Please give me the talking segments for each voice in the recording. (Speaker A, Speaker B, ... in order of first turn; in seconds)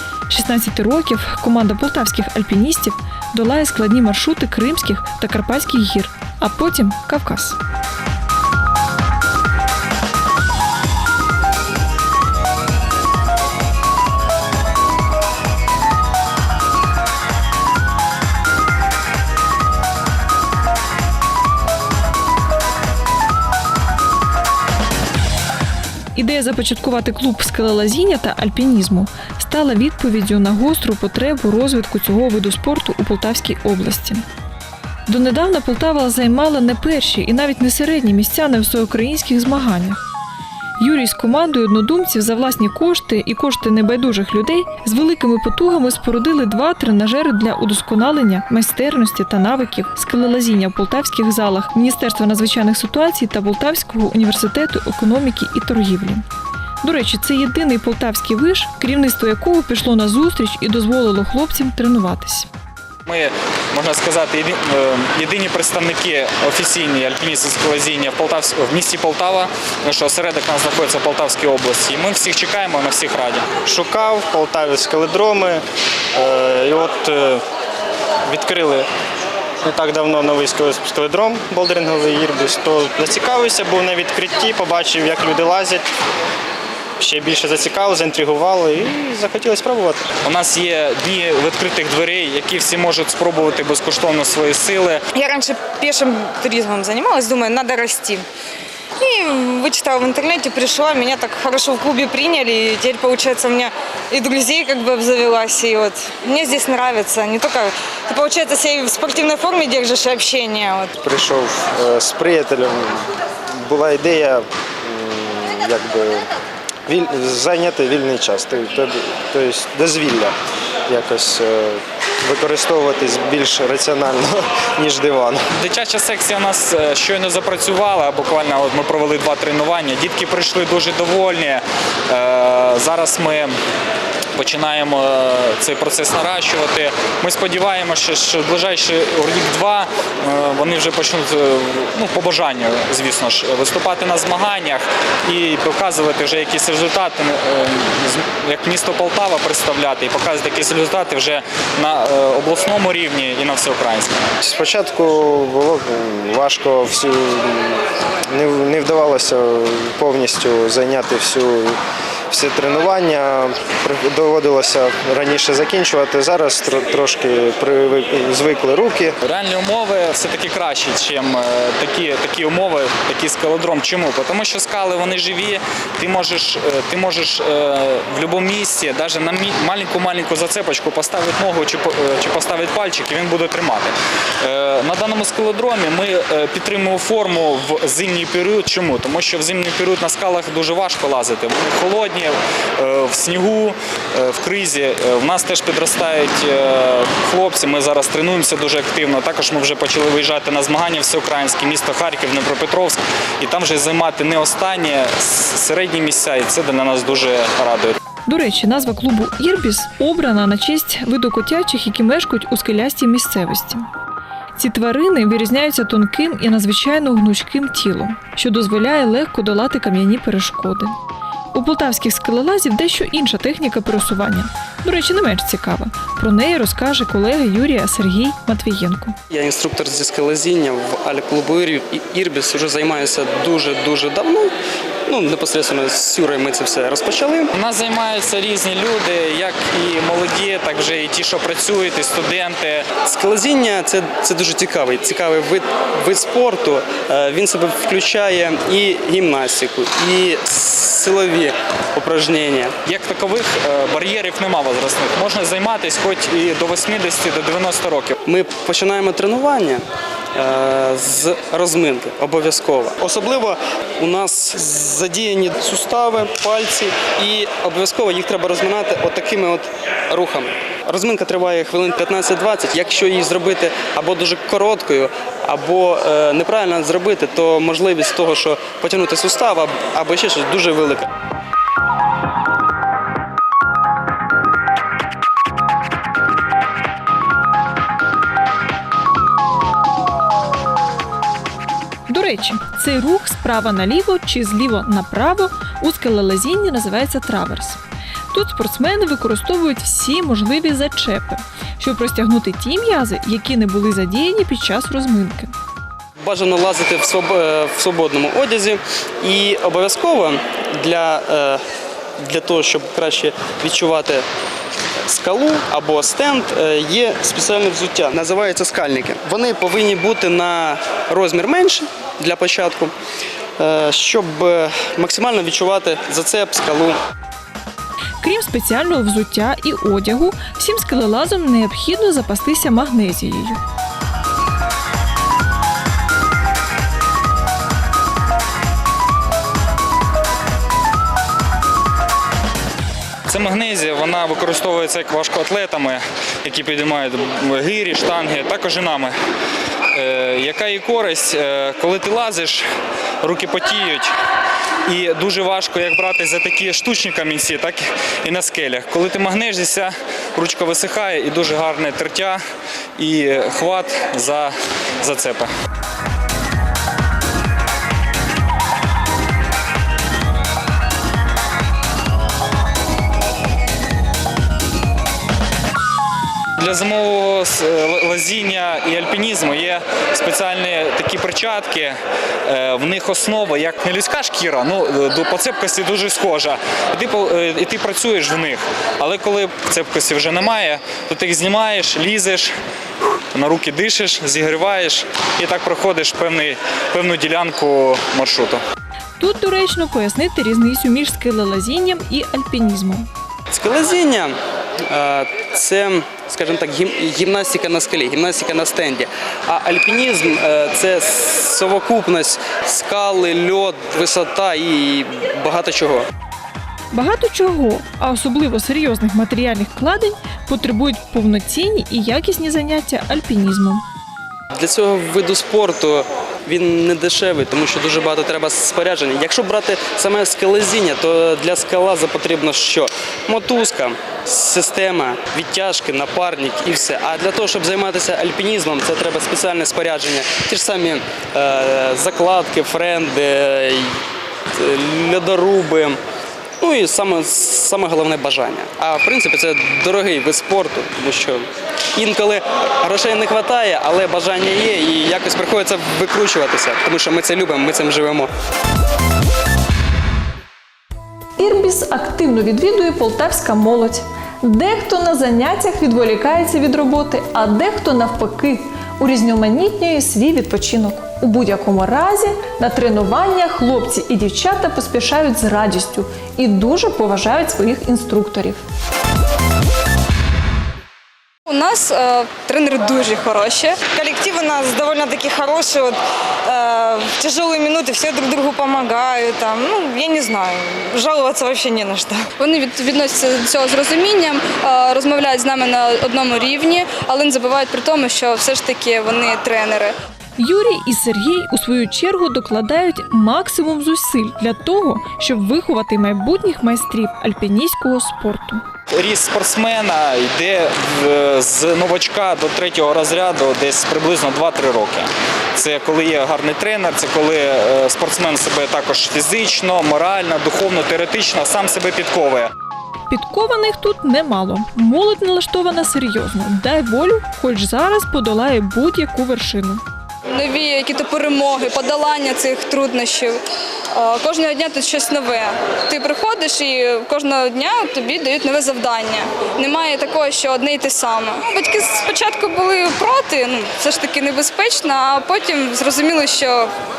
Speaker A: 0.3-7.6, 26.1-34.2, 35.1-40.0, 40.8-56.2, 56.8-62.5, 208.3-213.9, 214.6-220.9, 221.5-229.2, 292.1-297.8, 298.3-305.5, 328.2-333.6, 399.2-403.1, 416.9-423.8, 461.4-478.6, 500.4-508.6, 523.1-529.8
Speaker B: 63.1-73.5, 90.2-95.0, 125.5-133.6, 134.4-154.3, 169.2-208.0, 237.5-242.9, 252.8-258.1, 343.3-349.1, 349.9-352.6, 353.2-354.2, 354.9-362.4, 363.0-365.5, 376.6-392.5, 393.3-398.6, 508.9-522.5
Speaker C: 73.6-75.6, 76.1-77.4, 78.3-78.9, 79.6-85.8, 87.0-90.1, 111.0-113.1, 113.6-116.3, 116.9-120.3, 120.9-125.4, 154.4-161.8, 162.3-169.2
Speaker D: 95.1-98.2, 99.0-110.9, 483.8-492.3
Speaker E: 229.3-234.5, 235.1-237.5, 242.9-252.8, 258.2-259.8, 260.3-281.1, 306.2-311.6, 312.2-314.3, 315.1-322.9, 323.6-327.0, 403.5-416.1, 424.5-444.0, 444.5-446.0, 446.6-458.3
Speaker F: 481.5-483.8, 492.4-499.9, 530.3-533.4, 533.9-546.7